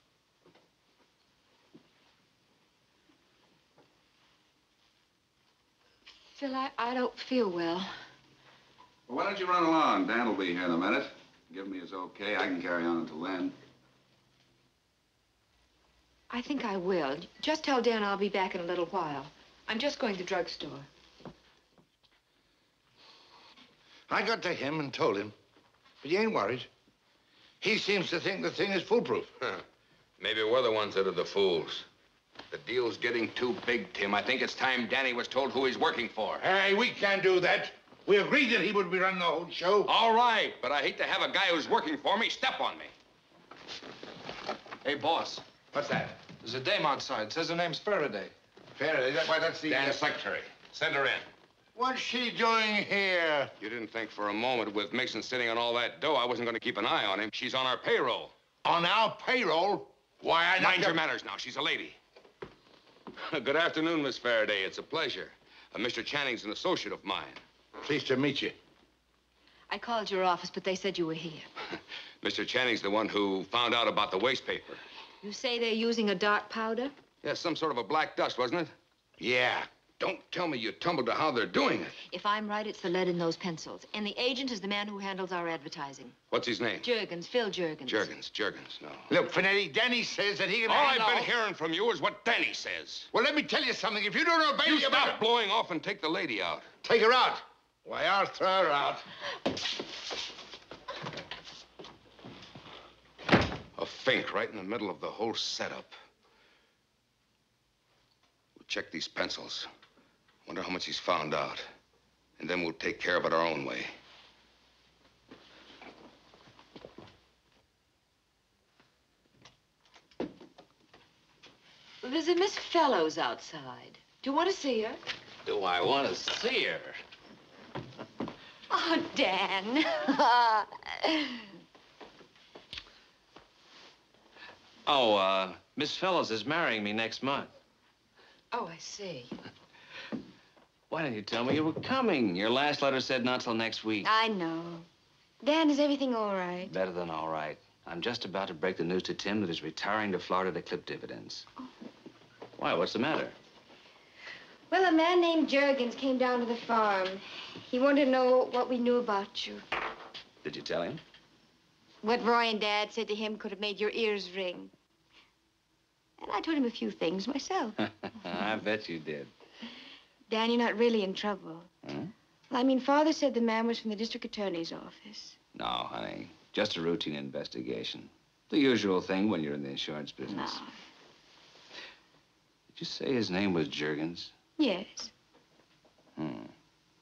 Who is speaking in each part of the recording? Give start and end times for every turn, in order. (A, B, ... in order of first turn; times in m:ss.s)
0:06.4-0:07.9 A
0:09.1-0:13.6 B
0:16.3-0:20.9 A
0:24.1-0:25.3 C
0:26.0-0:26.7 C
0:27.6-0:29.3 C
0:30.2-0:31.8 D
0:32.5-0:36.4 D
0:36.4-0:39.9 C
0:39.9-0:42.9 D
0:44.8-0:45.4 E
0:45.7-0:46.2 C
0:46.4-0:48.3 E
0:48.8-0:50.3 C
0:49.6-0:51.2 D
0:51.7-0:53.5 C
0:53.6-0:58.3 D
0:58.6-1:01.0 C
1:00.4-1:02.0 D
1:03.2-1:07.4 D
1:07.8-1:08.6 C
1:09.7-1:11.5 A
1:12.2-1:14.8 D
1:15.2-1:16.9 A
1:17.2-1:18.7 D
1:19.2-1:19.7 C
1:20.0-1:21.9 D
1:22.1-1:26.2 A
1:26.3-1:26.8 D
1:26.8-1:28.1 A
1:27.8-1:29.1 D
1:29.1-1:31.3 C
1:30.6-1:33.1 D
1:33.1-1:35.2 C
1:34.6-1:36.7 D
1:36.8-1:39.0 C
1:43.8-1:45.9 D
1:48.6-1:49.7 D
1:50.4-1:51.7 D
1:52.4-1:53.9 D
2:02.0-2:05.0 A
2:05.4-2:07.0 F
2:08.7-2:09.9 A
2:10.1-2:11.0 G
2:14.8-2:17.5 F
2:18.5-2:19.4 A
2:20.9-2:24.1 F
2:24.0-2:24.8 G
2:25.4-2:26.7 G
2:26.7-2:31.4 F
2:32.6-2:33.3 F
2:34.7-2:39.6 G
2:40.4-2:41.0 F
2:42.0-2:44.7 G
2:46.2-2:47.8 G
2:47.8-2:49.3 F
2:50.3-2:51.7 G
2:51.8-2:52.1 F
2:52.5-2:55.4 G
2:55.5-3:00.6 F
3:00.3-3:00.7 G
3:02.7-3:04.3 F
3:04.6-3:05.1 G
3:06.2-3:06.5 F